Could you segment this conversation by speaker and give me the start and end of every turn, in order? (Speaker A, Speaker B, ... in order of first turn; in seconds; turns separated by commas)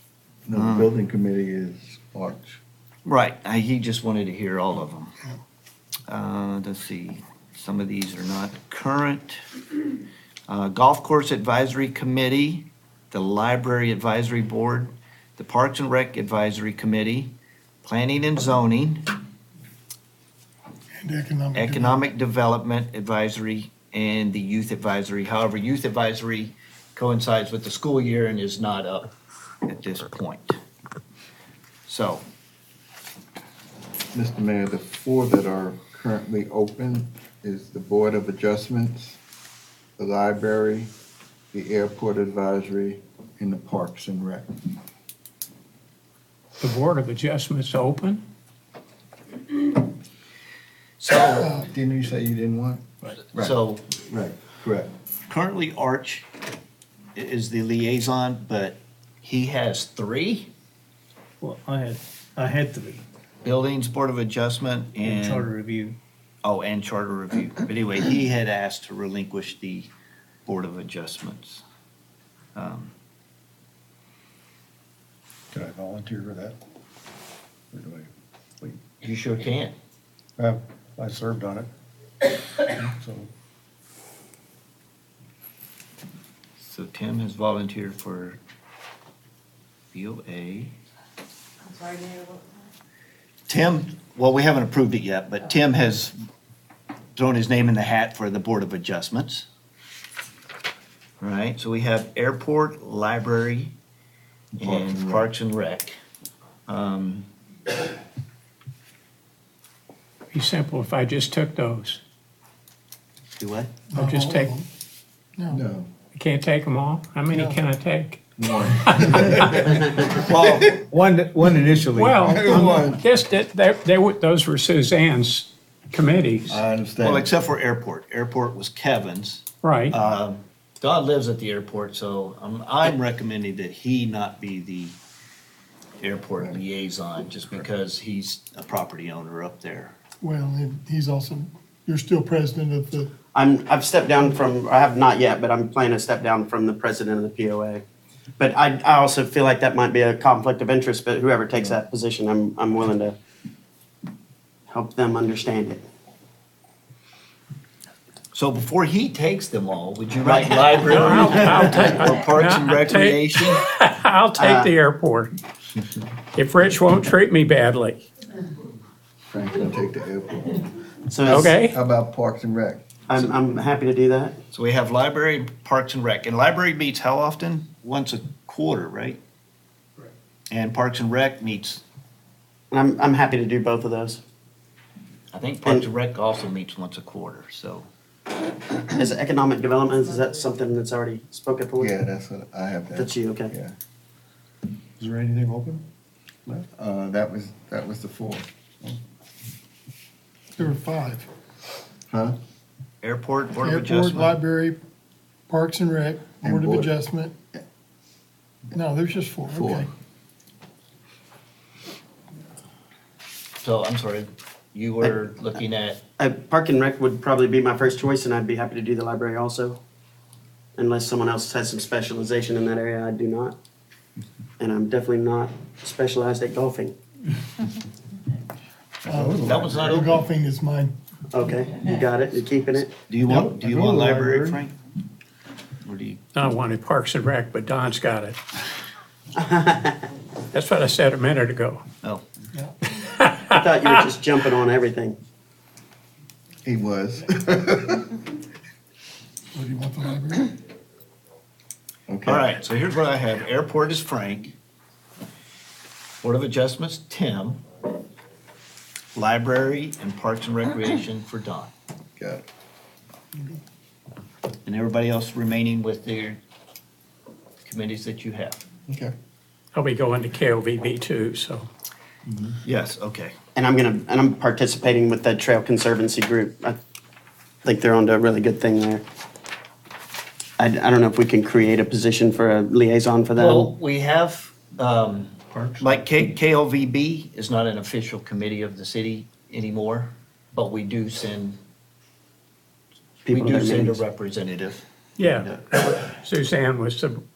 Speaker A: 0.5-2.6, Speaker B: 0.5-0.9, Speaker B: 3.1-5.1, Speaker B: 6.1-9.4, Speaker B: 10.5-17.3, Speaker B: 17.8-19.1, Speaker C: 21.0-22.0, Speaker B: 21.6-29.1, Speaker B: 29.7-30.6, Speaker B: 31.9-32.2, Speaker A: 34.1-39.2, Speaker A: 40.0-40.9, Speaker A: 41.5-44.5, Speaker D: 46.6-48.2, Speaker B: 51.0-51.6, Speaker A: 51.5-53.5, Speaker B: 53.4-53.9, Speaker A: 54.1-54.9, Speaker B: 55.3-56.3, Speaker B: 57.1-60.5, Speaker E: 61.4-63.0, Speaker B: 63.4-65.5, Speaker E: 65.0-66.0, Speaker B: 66.4-69.9, Speaker B: 70.5-71.6, Speaker B: 72.5-72.9, Speaker F: 75.5-76.6, Speaker F: 77.7-78.1, Speaker B: 79.0-79.8, Speaker F: 80.4-81.7, Speaker F: 82.5-83.3, Speaker B: 86.6-88.4, Speaker B: 89.9-90.7, Speaker B: 93.5-96.1, Speaker B: 97.2-99.5, Speaker B: 101.2-103.8, Speaker A: 104.5-105.3, Speaker B: 104.6-106.0, Speaker B: 106.7-107.3, Speaker D: 110.3-112.0, Speaker B: 113.4-113.7, Speaker C: 113.9-114.7, Speaker D: 114.0-114.5, Speaker A: 115.5-115.9, Speaker D: 116.1-118.2, Speaker C: 117.3-117.6, Speaker A: 118.4-120.9, Speaker D: 118.8-119.7, Speaker G: 119.6-120.4, Speaker B: 120.2-120.6, Speaker E: 120.9-122.5, Speaker D: 121.9-126.5, Speaker A: 122.2-123.0, Speaker A: 126.5-127.3, Speaker B: 127.0-135.0, Speaker D: 129.6-129.9, Speaker B: 136.0-139.9, Speaker C: 140.2-143.1, Speaker G: 143.3-147.8, Speaker G: 148.4-153.2, Speaker G: 154.7-155.8, Speaker B: 158.3-163.6, Speaker G: 160.2-162.1, Speaker D: 160.9-165.3, Speaker G: 164.4-164.7, Speaker D: 166.4-168.0, Speaker A: 169.3-170.6, Speaker G: 171.1-171.5, Speaker D: 171.3-171.8, Speaker A: 171.3-172.8, Speaker G: 173.1-174.3, Speaker B: 174.5-179.2, Speaker B: 180.5-181.8, Speaker G: 182.7-184.2, Speaker B: 185.3-187.9, Speaker G: 188.9-191.9, Speaker A: 191.8-193.8, Speaker G: 192.9-193.5, Speaker F: 195.0-195.8, Speaker A: 196.7-198.5, Speaker C: 200.6-201.3, Speaker A: 202.1-202.4, Speaker B: 203.0-204.4, Speaker C: 203.6-204.8, Speaker C: 205.5-207.3, Speaker A: 206.4-206.9, Speaker C: 208.7-209.9, Speaker A: 209.5-209.9, Speaker B: 213.6-216.0, Speaker G: 216.2-219.8, Speaker G: 220.8-223.6, Speaker G: 224.6-227.0, Speaker C: 229.1-230.9, Speaker F: 229.1-229.9, Speaker B: 229.4-230.2, Speaker G: 231.3-232.9, Speaker B: 233.1-234.8, Speaker E: 233.3-234.5, Speaker F: 233.3-234.5, Speaker B: 235.8-236.2, Speaker D: 236.3-238.4, Speaker G: 239.4-240.0, Speaker D: 240.5-241.8, Speaker D: 242.9-243.6, Speaker G: 243.5-245.2, Speaker A: 246.7-248.2, Speaker C: 249.5-250.5, Speaker A: 252.1-252.5, Speaker B: 252.3-254.6, Speaker B: 256.2-257.6, Speaker B: 259.1-261.7, Speaker A: 262.2-262.4, Speaker B: 264.7-266.4, Speaker B: 267.7-268.6, Speaker A: 268.9-269.1, Speaker D: 269.7-271.7, Speaker B: 272.6-273.4, Speaker G: 273.6-276.8, Speaker G: 277.6-279.0, Speaker G: 280.6-283.7, Speaker B: 283.4-291.6, Speaker F: 285.5-286.1, Speaker G: 293.3-294.0, Speaker B: 293.3-294.8, Speaker D: 295.2-297.2